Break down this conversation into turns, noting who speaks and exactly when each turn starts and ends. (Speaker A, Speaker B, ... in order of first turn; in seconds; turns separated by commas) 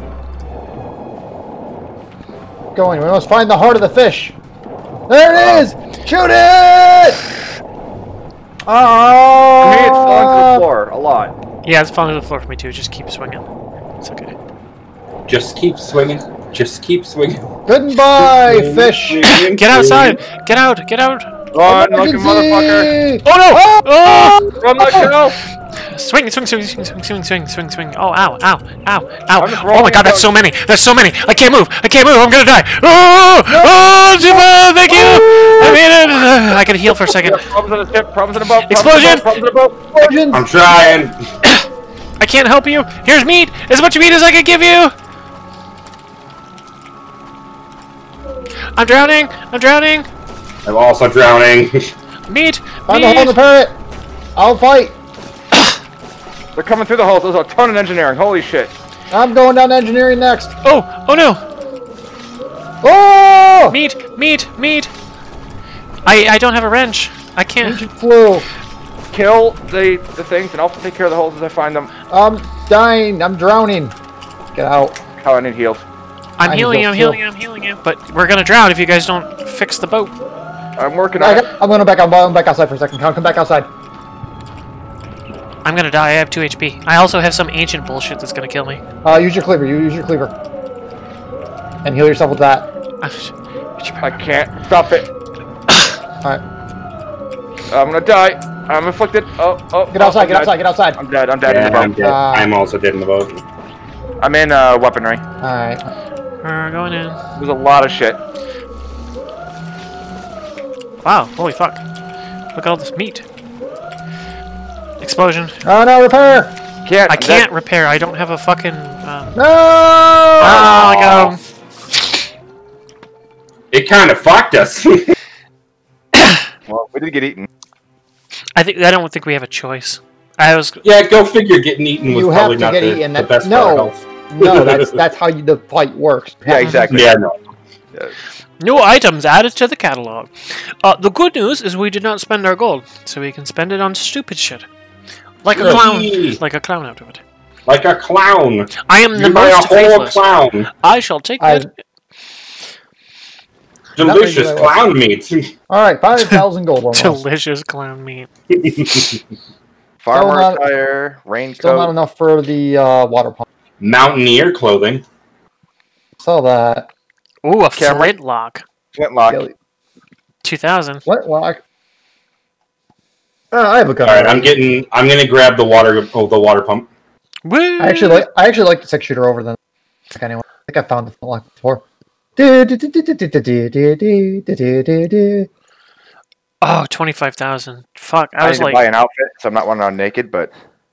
Speaker A: 2.7-4.3, Speaker A: 5.1-7.2, Speaker B: 5.3-5.6, Speaker A: 8.6-10.7, Speaker B: 9.6-11.3, Speaker C: 11.6-13.4, Speaker C: 14.0-14.3, Speaker D: 15.3-17.5, Speaker A: 17.7-19.3, Speaker D: 18.2-20.2, Speaker C: 19.3-21.3, Speaker B: 21.5-22.9, Speaker A: 21.6-25.1, Speaker C: 23.2-25.1, Speaker B: 24.6-25.4, Speaker C: 25.8-37.4, Speaker B: 29.4-30.3, Speaker B: 33.5-33.8, Speaker B: 34.9-35.8, Speaker B: 36.9-40.1, Speaker C: 38.7-39.3, Speaker A: 40.0-40.5, Speaker D: 40.3-41.2, Speaker C: 42.2-44.9, Speaker C: 48.7-50.1, Speaker D: 50.6-51.9, Speaker C: 52.3-53.4, Speaker A: 52.9-53.8, Speaker A: 54.4-55.0, Speaker B: 56.5-58.7, Speaker A: 59.1-60.5, Speaker C: 60.6-61.4, Speaker A: 62.8-63.8, Speaker C: 63.7-64.9, Speaker C: 66.0-67.8, Speaker A: 67.6-68.5, Speaker B: 69.1-71.9, Speaker A: 72.1-73.9, Speaker A: 74.5-75.0, Speaker B: 75.2-75.8, Speaker C: 76.4-80.1, Speaker A: 76.4-77.2, Speaker B: 80.8-81.5, Speaker A: 81.2-83.7, Speaker C: 85.6-88.8, Speaker A: 89.0-90.3, Speaker A: 91.8-92.7, Speaker C: 93.0-94.2, Speaker B: 94.0-95.1, Speaker B: 97.7-101.9, Speaker A: 99.9-101.0, Speaker D: 101.4-103.4, Speaker A: 101.7-102.5, Speaker B: 104.2-105.2, Speaker A: 105.4-105.9, Speaker C: 106.4-107.2, Speaker B: 107.3-108.2, Speaker C: 111.0-111.8, Speaker C: 112.5-113.2, Speaker C: 115.0-115.6, Speaker A: 115.6-116.5, Speaker B: 116.8-117.5, Speaker C: 117.1-119.4, Speaker A: 119.3-120.8, Speaker D: 120.4-121.3, Speaker C: 120.4-121.4, Speaker D: 123.7-125.1, Speaker B: 126.7-127.5, Speaker C: 128.6-130.8, Speaker D: 130.8-134.9, Speaker A: 132.1-136.9, Speaker B: 136.4-137.2, Speaker C: 136.6-136.9, Speaker D: 136.9-137.3, Speaker C: 138.6-144.7, Speaker C: 145.4-147.2, Speaker D: 145.5-146.4, Speaker D: 147.7-150.7, Speaker C: 148.8-150.2, Speaker C: 150.8-151.7, Speaker A: 151.4-151.7, Speaker D: 153.9-155.5, Speaker A: 154.0-154.7, Speaker A: 155.7-157.2, Speaker C: 156.9-158.3, Speaker D: 158.5-159.2, Speaker B: 160.0-161.9, Speaker A: 160.1-160.6, Speaker A: 161.6-163.4, Speaker D: 163.8-165.0, Speaker A: 166.2-166.9, Speaker C: 167.4-168.6, Speaker B: 167.8-168.1, Speaker B: 168.9-169.4, Speaker C: 170.4-171.0, Speaker A: 171.1-171.6, Speaker A: 173.5-174.7, Speaker D: 174.0-176.9, Speaker C: 177.4-178.3, Speaker A: 177.8-179.6, Speaker A: 180.1-181.8, Speaker A: 182.3-185.5, Speaker C: 186.6-188.8, Speaker B: 188.4-190.5